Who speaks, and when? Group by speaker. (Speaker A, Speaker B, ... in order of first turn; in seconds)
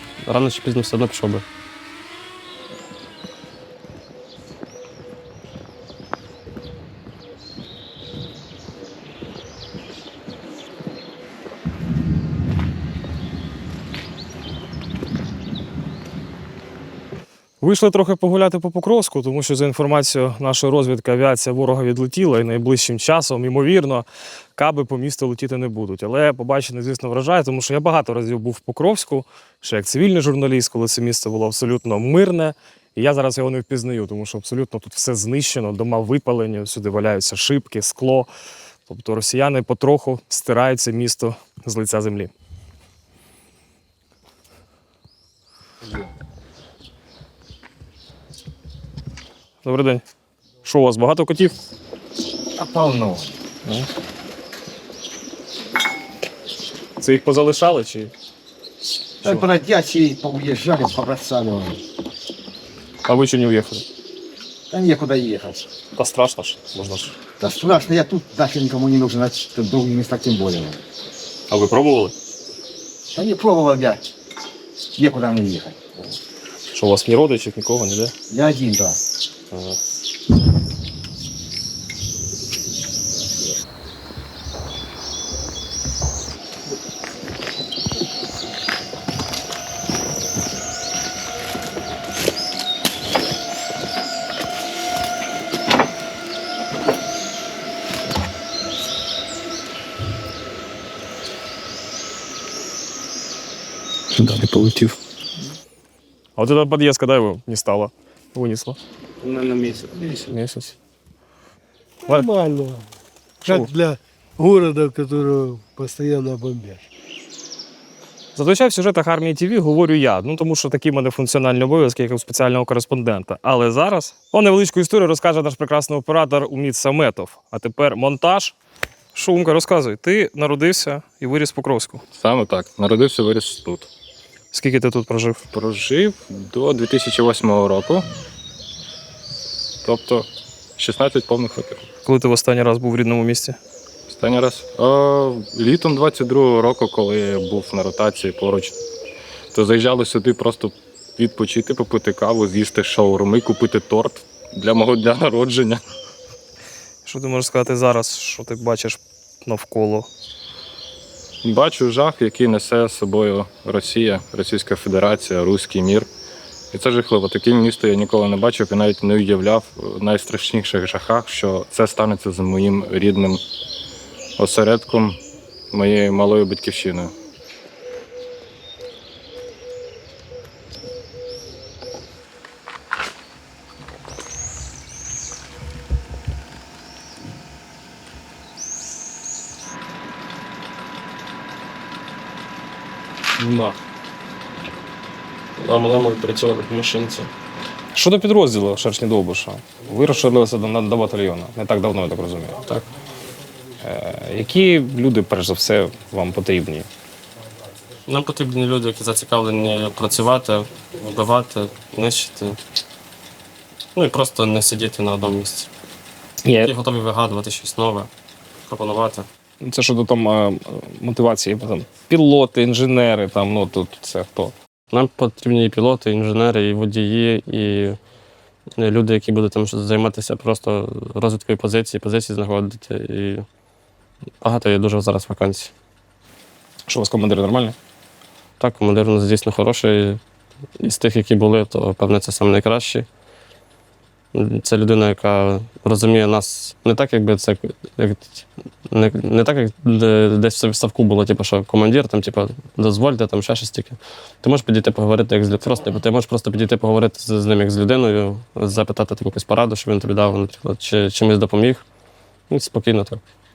Speaker A: 0.2-1.4, 195.6-197.3, 208.1-212.6, 213.9-215.7, 216.6-218.1, 218.7-219.3, 224.9-228.0, 228.8-233.4, 234.4-235.7, 238.6-240.2, 240.8-243.1, 244.3-261.8, 262.5-263.2
Speaker B: 17.6-38.3, 38.9-42.3, 49.6-50.0, 50.6-51.5, 57.0-58.1, 63.0-63.8, 66.0-67.2, 71.5-72.1, 76.7-78.1, 104.3-104.7, 106.4-108.8, 110.0-110.7, 113.5-113.7, 118.3-128.6, 129.1-132.0, 134.5-135.4, 142.0-143.6, 157.0-160.1, 197.9-202.6, 203.8-206.9, 216.4-216.7, 219.6-224.5, 236.9-237.8
Speaker C: 52.5-53.4, 59.2-61.8, 64.7-65.7, 67.4-70.8, 73.1-74.0, 74.9-76.1, 78.3-79.0
Speaker D: 112.1-112.8, 113.4-116.8
Speaker E: 132.1-133.9, 135.5-138.0, 139.8-141.9, 144.1-148.7, 149.5-155.8, 161.4-166.1, 166.7-173.4, 174.4-175.2, 175.7-177.1